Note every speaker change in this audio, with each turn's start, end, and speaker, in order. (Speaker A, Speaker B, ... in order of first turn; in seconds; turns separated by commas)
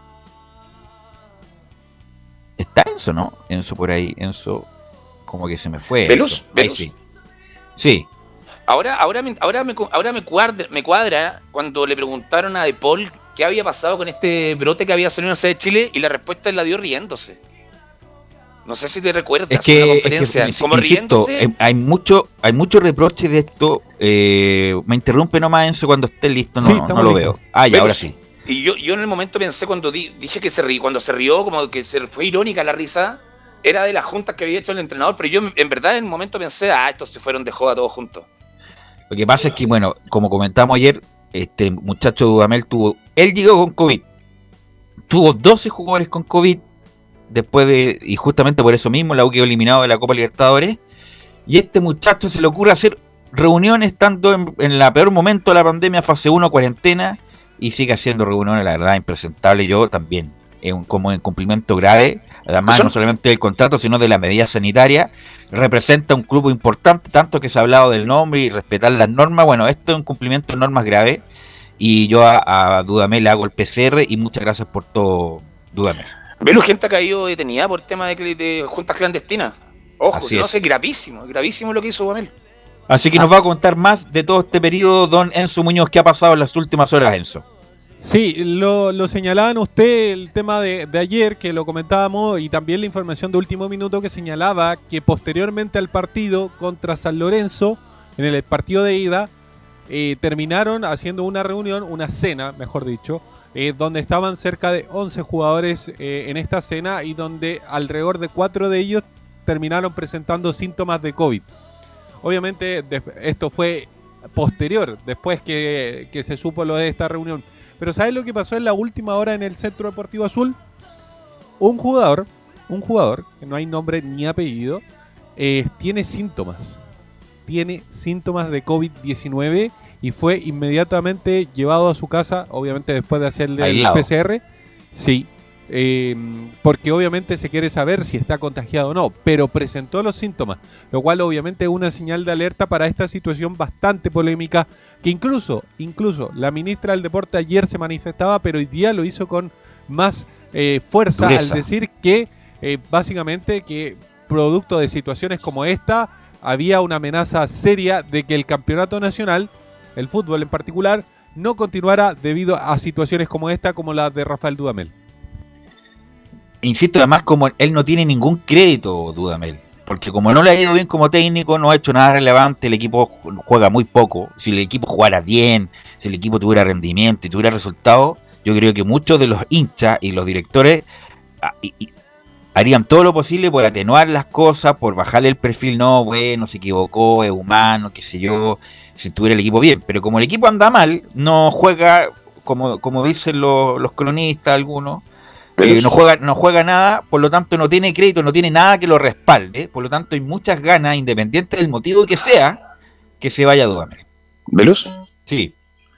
Speaker A: 2.6-4.7, Speaker A: 5.3-6.9, Speaker B: 6.1-6.9, Speaker A: 7.8-8.1, Speaker B: 8.7-17.4, Speaker B: 18.6-21.5, Speaker A: 19.5-28.2, Speaker C: 26.6-27.4, Speaker B: 27.7-38.3, Speaker A: 39.1-44.0, Speaker A: 45.1-46.6, Speaker A: 47.3-50.8, Speaker A: 51.5-71.2, Speaker B: 62.7-63.0, Speaker A: 71.8-76.1, Speaker B: 76.4-82.3, Speaker A: 80.1-80.5, Speaker A: 82.9-87.4, Speaker C: 88.0-99.3, Speaker C: 99.9-111.5, Speaker C: 112.2-120.6, Speaker C: 121.6-124.8, Speaker C: 125.4-126.8, Speaker C: 127.5-134.4, Speaker A: 133.6-134.1, Speaker C: 134.9-164.9, Speaker A: 151.2-151.7, Speaker A: 166.6-180.9, Speaker A: 181.4-181.9, Speaker A: 182.6-195.0, Speaker B: 195.6-196.0, Speaker A: 195.6-202.6, Speaker A: 203.2-204.0, Speaker B: 204.5-204.9, Speaker A: 205.3-205.5